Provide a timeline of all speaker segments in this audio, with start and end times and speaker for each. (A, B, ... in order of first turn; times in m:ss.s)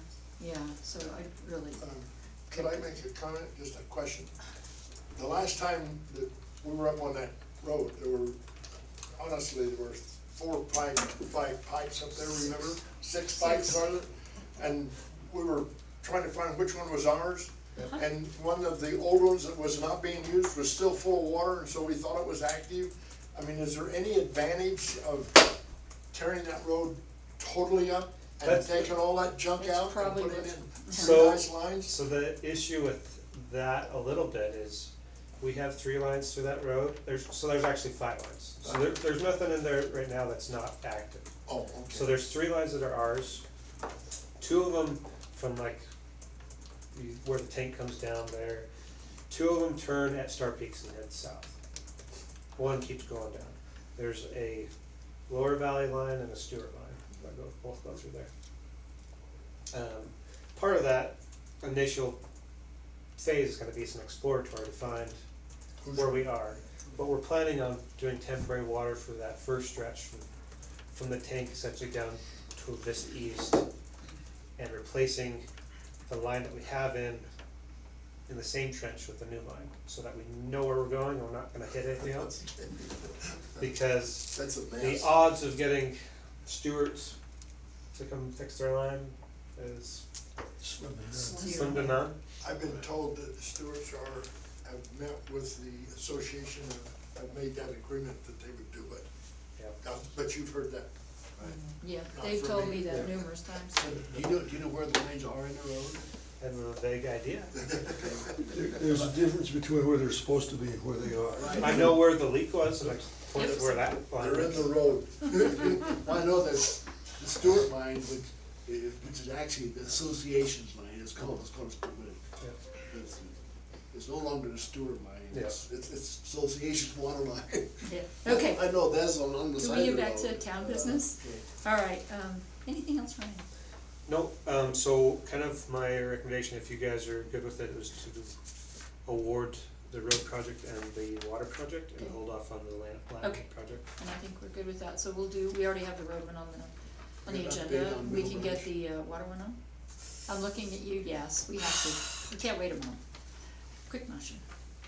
0:00.4-0:01.8 A
0:01.8-0:04.3 B
0:05.1-0:08.4 B
0:09.1-0:25.6 B
0:13.4-0:13.7 A
0:26.1-0:31.9 B
0:28.4-0:28.8 C
0:29.6-0:31.3 A
0:30.9-0:41.3 C
0:38.6-0:38.9 B
0:41.4-0:42.1 B
0:41.9-0:43.4 C
0:44.4-0:45.8 C
0:46.9-0:48.7 C
0:49.3-0:51.6 C
0:52.6-0:54.7 C
0:55.3-0:58.3 C
0:59.7-1:02.2 C
1:03.2-1:05.2 C
1:05.8-1:06.4 B
1:05.9-1:10.3 C
1:10.9-1:13.6 C
1:14.6-1:15.4 C
1:16.1-1:17.3 C
1:18.3-1:22.4 C
1:23.6-1:27.2 C
1:24.3-1:25.2 B
1:27.9-1:30.0 C
1:30.6-1:31.4 D
1:31.1-1:32.1 A
1:31.4-1:32.2 C
1:32.4-1:39.1 B
1:39.8-1:40.9 B
1:41.4-1:41.7 E
1:41.8-1:44.0 A
1:42.1-1:43.2 B
1:43.8-1:46.1 E
1:43.9-1:44.3 B
1:46.4-1:47.8 C
1:47.8-1:49.0 E
1:48.5-1:52.0 D
1:51.3-1:51.9 E
1:51.6-1:54.8 C
1:53.3-1:53.9 A
1:54.1-1:55.3 B
1:55.2-2:02.2 E
2:02.8-2:03.3 E
2:03.9-2:11.4 E
2:07.8-2:13.4 A
2:14.1-2:18.3 C
2:19.0-2:23.9 C
2:23.2-2:29.6 A
2:27.2-2:28.7 E
2:30.2-2:33.0 A
2:33.9-2:34.4 A